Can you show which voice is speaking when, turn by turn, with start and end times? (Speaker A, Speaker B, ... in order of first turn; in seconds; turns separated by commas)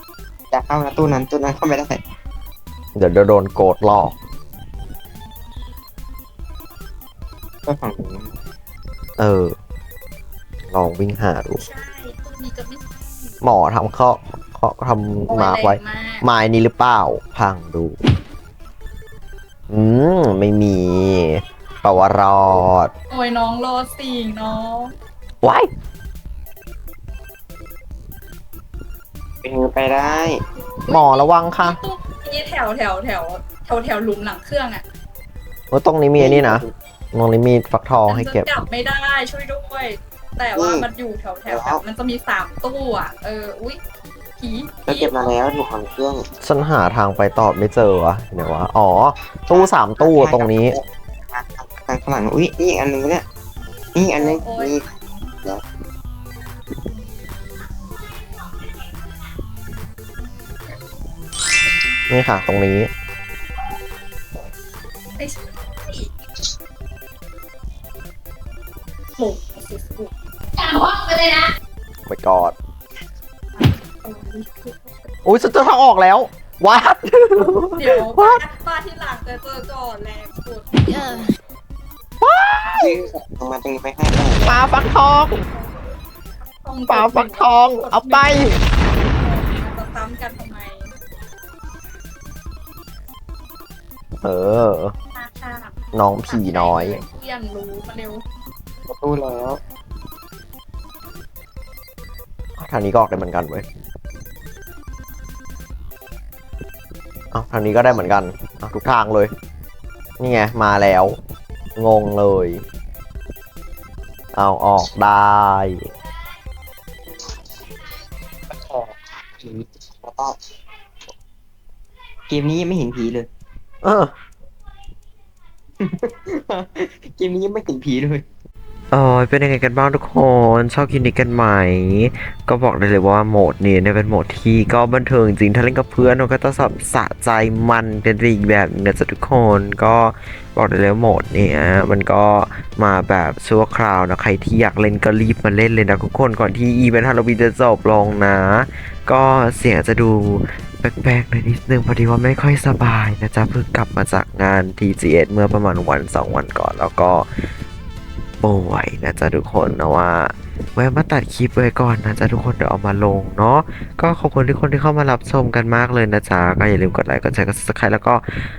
Speaker A: 0.5-2.0, Speaker B: 2.9-4.1, Speaker A: 7.7-8.3, Speaker B: 9.2-9.5, Speaker B: 10.7-11.6, Speaker C: 11.6-13.3, Speaker B: 13.4-18.0, Speaker C: 15.3-16.2, Speaker B: 19.7-22.9, Speaker C: 23.1-24.9, Speaker B: 25.4-25.7, Speaker A: 29.4-30.4, Speaker B: 30.9-31.8, Speaker C: 30.9-34.8, Speaker B: 35.7-38.5, Speaker A: 36.1-36.7, Speaker C: 38.1-43.8, Speaker A: 40.5-40.9, Speaker A: 41.5-41.8, Speaker C: 44.4-45.3, Speaker A: 44.9-46.2, Speaker B: 46.4-50.8, Speaker A: 49.5-53.2, Speaker A: 53.9-54.9, Speaker C: 54.1-54.8, Speaker B: 62.1-62.9, Speaker C: 65.2-66.1, Speaker C: 69.2-71.4, Speaker B: 72.0-72.5, Speaker C: 73.5-75.1, Speaker B: 75.2-78.4, Speaker C: 77.8-81.3, Speaker B: 82.2-83.0, Speaker A: 82.7-84.4, Speaker C: 84.4-85.8, Speaker B: 84.4-85.5, Speaker C: 86.6-90.9, Speaker B: 86.9-88.5, Speaker B: 94.2-94.9, Speaker C: 95.1-95.8, Speaker B: 95.9-97.0, Speaker C: 96.3-98.2, Speaker A: 98.9-99.6, Speaker B: 102.6-103.6, Speaker B: 107.3-109.3, Speaker B: 110.2-111.2, Speaker B: 111.8-112.6, Speaker B: 114.3-115.8, Speaker A: 118.5-120.3, Speaker A: 122.3-123.3, Speaker B: 123.8-124.1, Speaker A: 125.8-128.2, Speaker B: 128.9-157.3, Speaker B: 158.4-168.3